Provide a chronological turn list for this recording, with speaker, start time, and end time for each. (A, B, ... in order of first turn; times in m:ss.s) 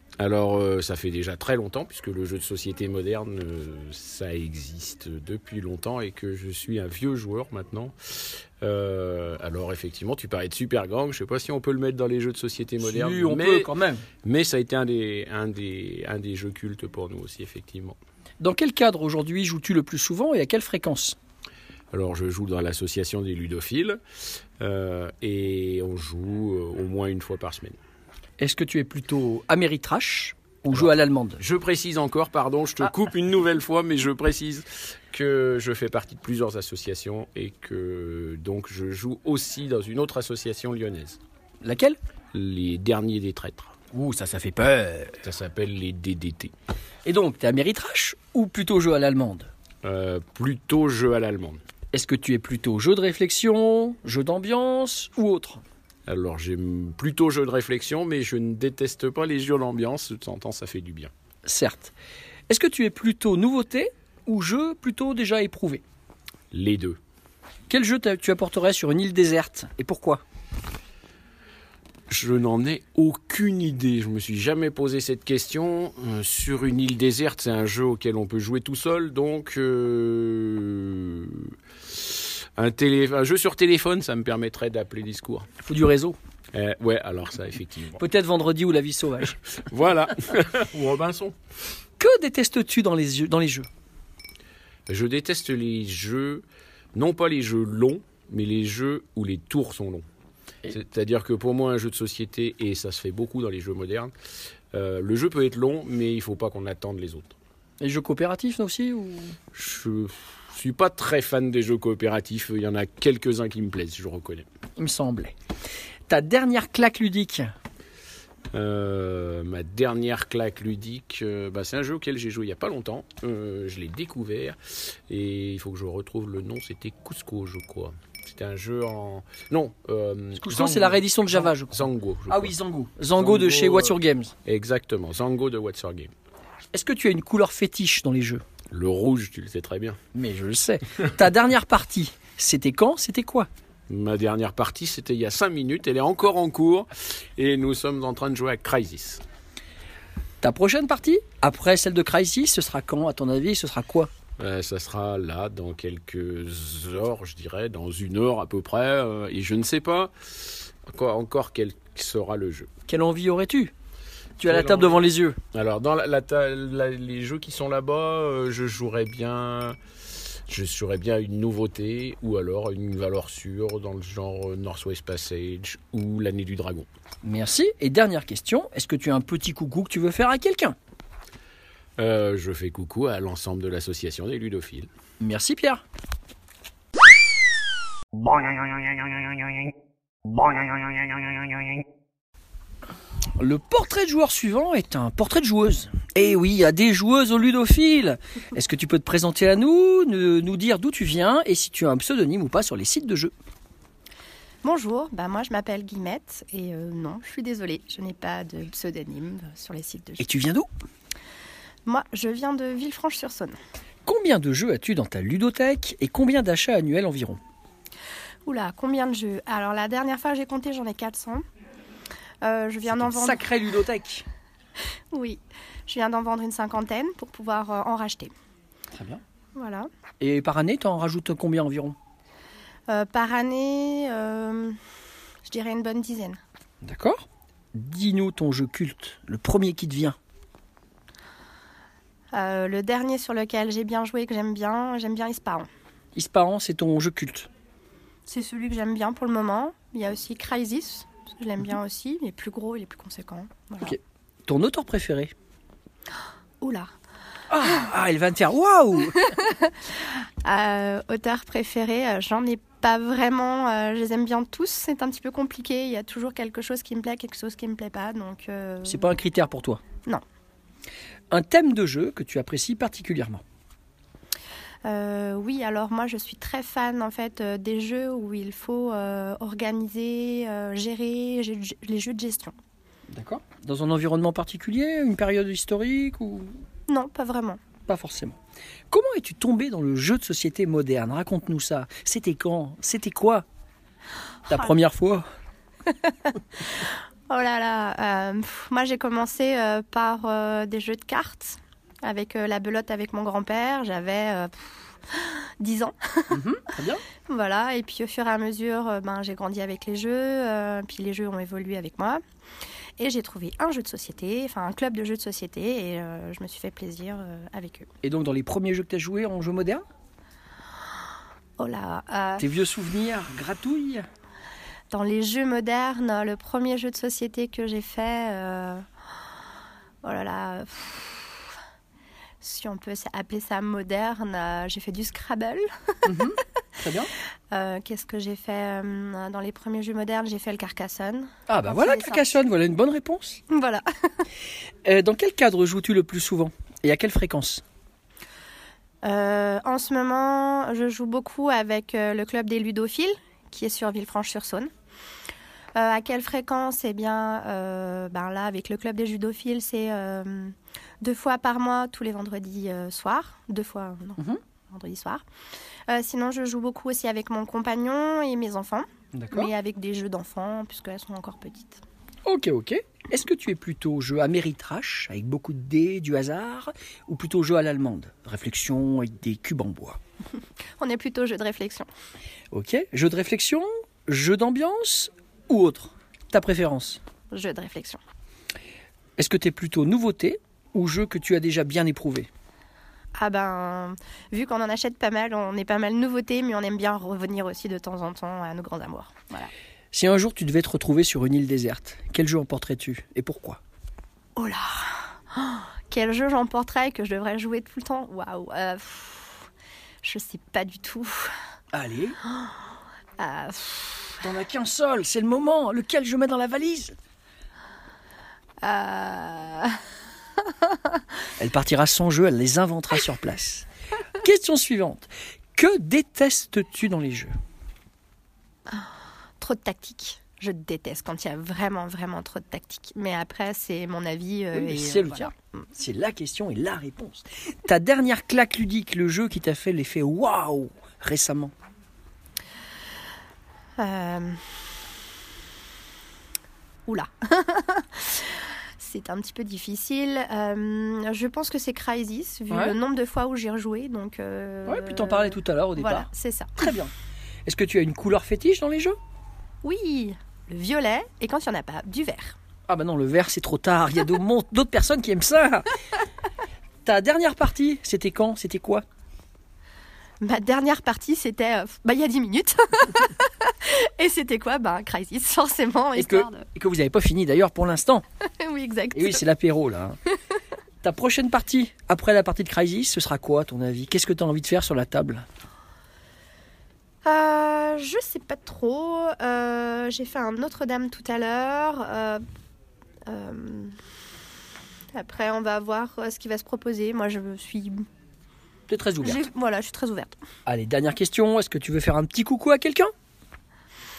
0:00.2-0:13.7 A
0:12.8-0:14.0 B
0:14.2-0:18.0 A
0:18.4-0:21.2 B
0:21.9-0:24.0 A
0:24.6-0:27.8 A
0:28.4-0:31.4 B
0:30.7-0:41.2 A
0:41.6-0:42.0 B
0:42.3-0:43.7 A
0:43.9-0:45.2 B
0:45.2-0:46.5 A
0:47.0-0:49.5 B
0:49.8-0:51.6 A
0:51.9-0:55.6 B
0:56.1-1:01.1 A
1:01.4-1:01.9 B
1:02.5-1:05.8 B
1:06.5-1:07.0 A
1:07.7-1:10.2 B
1:12.1-1:25.5 A
1:25.6-1:26.2 B
1:26.5-1:28.0 A
1:28.0-1:29.4 B
1:29.7-1:31.4 A
1:32.0-1:33.7 B
1:34.9-1:40.0 A
1:40.6-1:44.1 A
1:44.7-1:47.4 A
1:47.8-1:49.4 B
1:49.5-1:54.4 A
1:54.8-1:55.3 B
1:56.1-1:57.5 B
1:58.5-2:12.5 A
2:10.4-2:14.3 B
2:13.1-2:16.1 A
2:16.7-2:18.4 B
2:18.7-2:20.0 A
2:20.1-2:23.5 B
2:23.9-2:29.2 A
2:30.4-2:34.1 B
2:34.4-2:42.7 A
2:42.9-2:43.7 B
2:44.4-2:45.4 B
2:44.4-2:45.0 A
2:45.5-2:49.8 A
2:50.5-2:56.9 A
2:57.2-3:00.8 B
3:02.0-3:04.9 A
3:05.2-3:05.8 B
3:13.4-3:23.3 B
3:24.6-3:30.2 C
3:30.2-3:30.7 B
3:31.8-3:33.6 C
3:34.0-3:37.4 B
3:38.4-3:41.4 C
3:42.4-3:43.4 C
3:42.9-3:44.2 B
3:45.1-3:48.3 C
3:48.9-3:49.2 B
3:49.5-3:49.9 C
3:50.2-3:52.0 B
3:52.9-3:54.8 C
3:55.4-3:56.4 C
3:56.8-4:00.2 B
4:02.3-4:05.7 C
4:06.1-4:07.5 B
4:08.2-4:14.0 C
4:13.8-4:15.3 B
4:16.6-4:16.9 C
4:17.5-4:19.2 B
4:19.2-4:29.1 C
4:28.8-4:29.8 B
4:31.3-4:33.4 B
4:34.8-4:42.5 C
4:43.1-4:46.6 B
4:46.9-4:47.6 C
4:47.9-4:48.4 B
4:48.9-4:53.4 B
4:54.5-4:55.2 B
4:55.9-5:06.4 C
5:06.3-5:07.0 B
5:07.2-5:12.2 C
5:13.0-5:17.9 C
5:18.0-5:19.8 B
5:21.6-5:22.4 C
5:22.4-5:24.0 B
5:24.9-5:28.8 C
5:30.0-5:31.5 C
5:32.4-5:36.1 C
5:36.0-5:37.1 B
5:37.5-5:42.4 C
5:41.5-5:43.4 B
5:43.5-5:44.2 C
5:44.8-5:47.6 B
5:49.0-5:54.7 C
5:55.7-6:05.2 C
6:05.9-6:11.8 C
6:09.1-6:09.5 B
6:12.2-6:20.0 B
6:20.8-6:21.9 C
6:22.5-6:27.0 B
6:27.3-6:28.0 C
6:29.2-6:32.3 B
6:33.1-6:39.5 C
6:39.9-6:43.6 B
6:44.4-6:49.5 C
6:50.0-6:51.3 C
6:51.7-6:52.2 B
6:53.2-6:54.2 C
6:54.2-6:57.0 B
6:58.6-6:59.8 C
7:00.6-7:01.0 C
7:01.4-7:03.7 B
7:04.2-7:07.3 B
7:08.7-7:15.3 C
7:14.5-7:21.5 B
7:23.8-7:24.4 C
7:26.8-7:36.7 C
7:32.5-7:32.7 B
7:34.6-7:36.9 B
7:37.4-7:39.0 B
7:39.6-7:42.4 C
7:42.7-7:45.7 B
7:46.8-7:48.8 B
7:50.2-7:56.5 C
7:56.0-7:58.0 B
7:58.2-7:59.2 C
7:58.9-8:00.0 B
8:00.8-8:05.2 B
8:07.0-8:12.2 C
8:13.0-8:13.7 C
8:14.9-8:17.8 C
8:18.7-8:19.2 B
8:19.0-8:20.2 C
8:20.4-8:22.9 B